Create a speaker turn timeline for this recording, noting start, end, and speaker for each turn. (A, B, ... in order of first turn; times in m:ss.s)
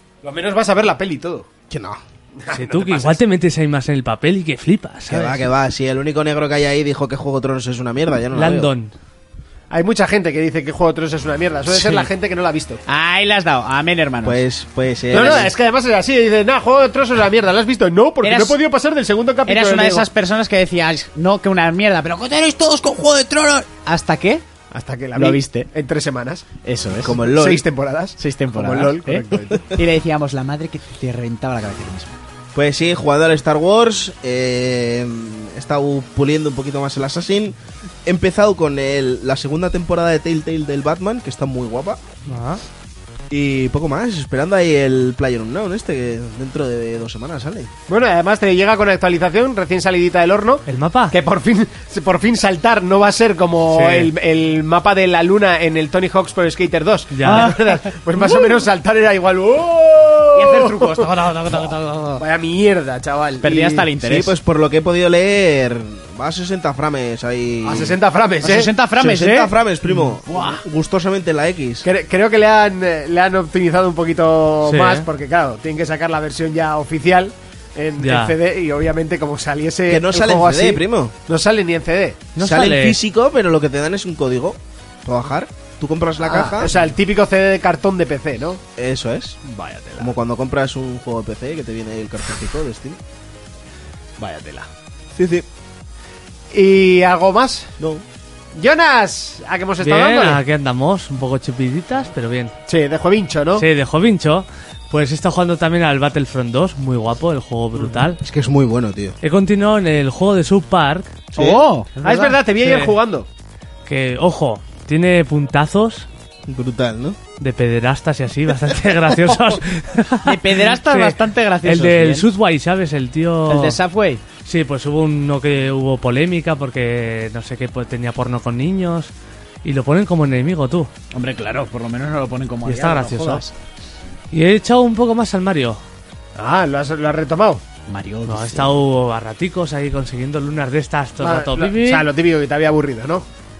0:00.2-0:01.5 A
0:01.7-0:02.0 B
0:02.4-0:03.2 A
0:02.5-0:05.4 C
0:05.1-0:08.7 B
0:08.3-0:08.9 C
0:09.7-0:12.8 A
0:11.7-0:12.1 D
0:12.9-0:14.4 D
0:14.2-0:15.5 B
0:15.1-0:20.1 A
0:18.2-0:18.6 D
0:19.4-0:24.4 D
0:24.7-0:26.4 A
0:25.1-0:25.7 D
0:26.6-0:27.2 D
0:27.0-0:27.6 B
0:27.1-0:29.8 A
0:28.2-0:32.2 D
0:32.5-0:42.0 B
0:42.2-0:42.6 C
0:43.3-0:47.7 B
0:47.9-1:01.1 A
0:50.7-0:51.1 C
0:53.7-0:54.1 C
0:57.1-0:57.5 C
0:57.2-0:58.5 D
1:00.3-1:02.2 D
1:02.2-1:03.9 A
1:03.4-1:04.3 D
1:04.0-1:08.0 B
1:07.6-1:08.7 A
1:08.4-1:09.5 D
1:09.0-1:11.8 B
1:10.3-1:10.6 D
1:11.8-1:22.3 A
1:14.6-1:15.0 C
1:18.0-1:18.4 C
1:19.9-1:21.1 B
1:22.3-1:23.0 C
1:22.4-1:26.8 B
1:26.2-1:28.6 A
1:28.8-1:29.4 B
1:29.4-1:30.1 A
1:30.0-1:33.0 B
1:34.2-1:34.7 A
1:35.1-1:35.4 B
1:36.5-1:37.7 A
1:38.5-1:40.4 A
1:39.8-1:42.5 C
1:42.7-1:43.6 A
1:43.6-1:48.2 C
1:48.2-1:49.2 B
1:49.2-1:51.2 C
1:51.3-1:51.6 B
1:51.4-1:52.4 D
1:52.0-1:53.3 A
1:52.6-1:53.0 C
1:53.8-1:56.1 C
1:56.5-1:57.2 B
1:57.4-2:03.8 C
2:00.2-2:02.3 D
2:03.5-2:04.2 D
2:04.4-2:09.1 C
2:09.6-2:10.9 C
2:11.1-2:13.5 D
2:12.7-2:13.4 C
2:14.3-2:15.8 C
2:16.4-2:17.6 A
2:17.9-2:18.7 D
2:18.3-2:22.1 C
2:21.2-2:23.3 A